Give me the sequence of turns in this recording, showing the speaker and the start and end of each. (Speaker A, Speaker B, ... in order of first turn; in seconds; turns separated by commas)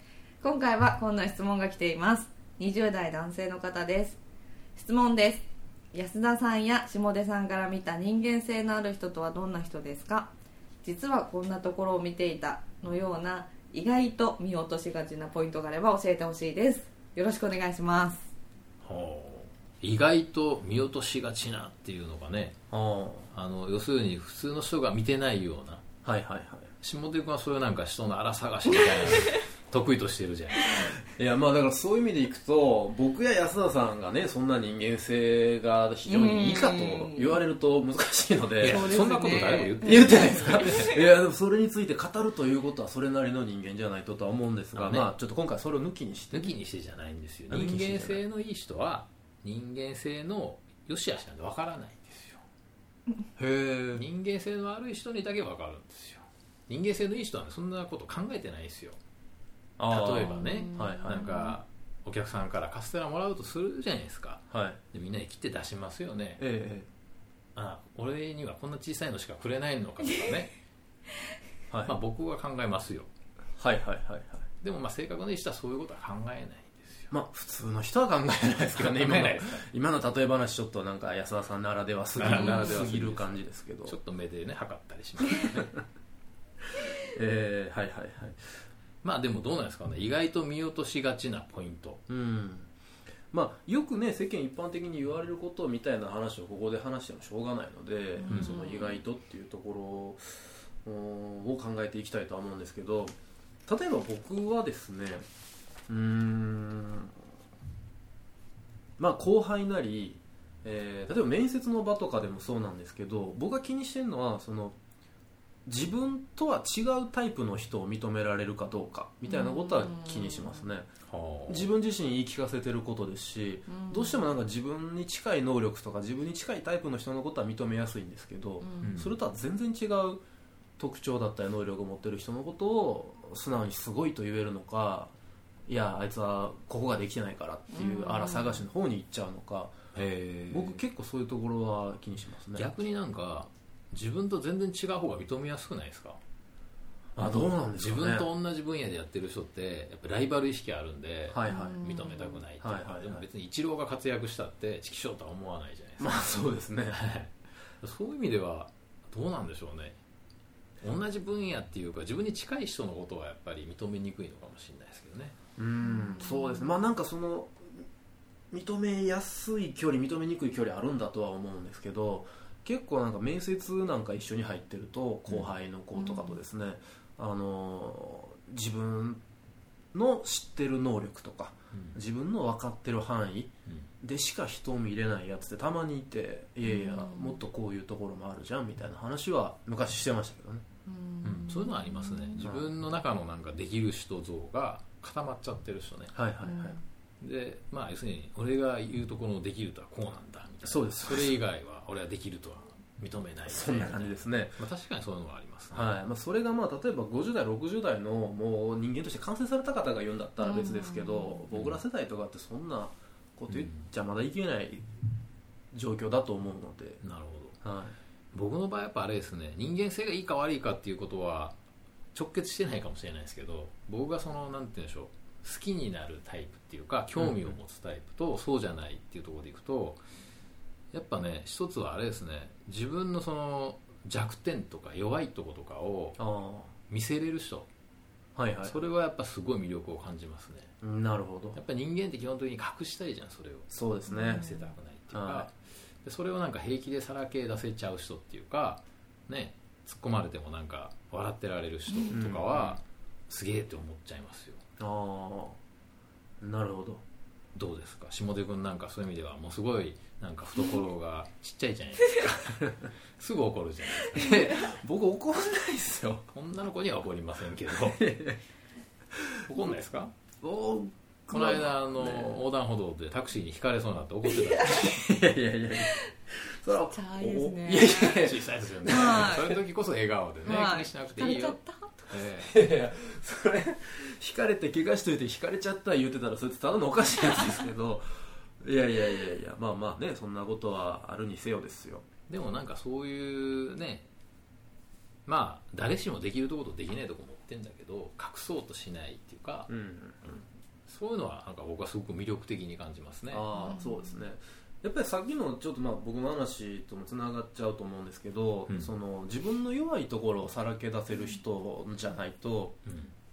Speaker A: 0.4-4.2, Speaker A: 4.8-18.3, Speaker B: 18.8-22.6, Speaker C: 22.7-23.3, Speaker B: 23.3-25.9, Speaker C: 26.0-26.7, Speaker B: 26.8-31.0, Speaker C: 31.1-39.0, Speaker A: 36.1-37.4, Speaker B: 38.6-41.0, Speaker A: 38.7-41.0, Speaker C: 39.8-46.5, Speaker B: 44.8-45.1, Speaker B: 46.3-52.4, Speaker C: 47.5-48.2, Speaker C: 53.4-54.1, Speaker B: 54.0-59.0, Speaker C: 59.8-61.3, Speaker B: 59.9-66.4, Speaker A: 60.4-61.6, Speaker C: 64.5-64.8, Speaker C: 66.4-66.9, Speaker B: 67.6-70.6, Speaker B: 71.8-73.1, Speaker C: 73.6-74.5, Speaker B: 74.6-77.1, Speaker C: 77.1-84.0, Speaker B: 78.8-79.7, Speaker B: 82.2-85.8, Speaker A: 82.3-82.6, Speaker C: 85.5-85.8, Speaker C: 87.0-88.4, Speaker B: 89.0-92.0, Speaker C: 92.1-92.7, Speaker C: 93.3-103.2, Speaker A: 98.2-99.0, Speaker B: 98.3-98.6, Speaker C: 103.7-105.3, Speaker C: 105.9-107.2, Speaker C: 109.0-114.8, Speaker C: 115.7-120.9, Speaker A: 119.3-120.7, Speaker B: 121.1-121.7, Speaker C: 121.5-130.2, Speaker A: 123.7-124.2, Speaker A: 128.6-129.0, Speaker B: 128.8-129.2, Speaker C: 130.8-135.2, Speaker C: 135.7-139.8, Speaker A: 137.7-138.6, Speaker B: 139.9-140.8, Speaker C: 140.5-142.7, Speaker B: 142.6-146.2, Speaker C: 147.2-148.3, Speaker B: 147.2-160.0, Speaker C: 151.3-151.9, Speaker A: 151.5-152.4, Speaker C: 152.6-153.2, Speaker C: 156.0-157.0, Speaker B: 160.8-165.4, Speaker C: 165.6-167.8, Speaker A: 165.8-166.7, Speaker C: 168.5-179.2, Speaker A: 175.9-176.4, Speaker C: 179.9-190.7, Speaker B: 181.7-182.0, Speaker A: 186.7-187.4, Speaker A: 190.9-192.4, Speaker B: 191.2-196.2, Speaker C: 192.4-192.7, Speaker C: 196.1-196.8, Speaker A: 196.4-196.8, Speaker B: 197.2-205.9, Speaker C: 200.6-201.4, Speaker C: 203.4-204.6, Speaker C: 205.7-214.9, Speaker A: 210.4-211.4, Speaker B: 211.5-211.8, Speaker B: 213.5-213.9, Speaker C: 215.7-217.0, Speaker B: 217.0-217.6, Speaker C: 217.6-218.0, Speaker B: 218.3-221.6, Speaker B: 222.1-230.0, Speaker C: 227.2-227.6, Speaker B: 230.9-236.2, Speaker C: 236.2-236.7, Speaker B: 236.9-237.7, Speaker C: 238.4-238.8, Speaker B: 238.7-240.7, Speaker C: 240.8-241.6, Speaker B: 241.6-243.7, Speaker C: 243.7-244.5, Speaker A: 244.1-244.6, Speaker B: 244.2-254.6, Speaker C: 245.1-245.5, Speaker C: 252.1-252.8, Speaker C: 254.8-255.6, Speaker C: 256.4-257.0, Speaker B: 257.6-264.8, Speaker C: 264.1-266.3, Speaker B: 266.3-268.0, Speaker C: 267.7-268.4, Speaker B: 269.5-270.1, Speaker C: 270.4-272.4, Speaker B: 271.3-274.9, Speaker A: 274.3-274.8, Speaker C: 274.6-279.6, Speaker A: 276.7-278.2, Speaker B: 278.2-281.6, Speaker A: 278.9-279.5, Speaker A: 280.4-282.1, Speaker B: 282.1-282.5, Speaker C: 282.2-292.1, Speaker B: 292.3-294.1, Speaker B: 295.3-299.7, Speaker C: 299.7-300.2, Speaker B: 300.3-303.5, Speaker C: 303.3-312.8, Speaker A: 303.6-304.2, Speaker B: 312.9-313.1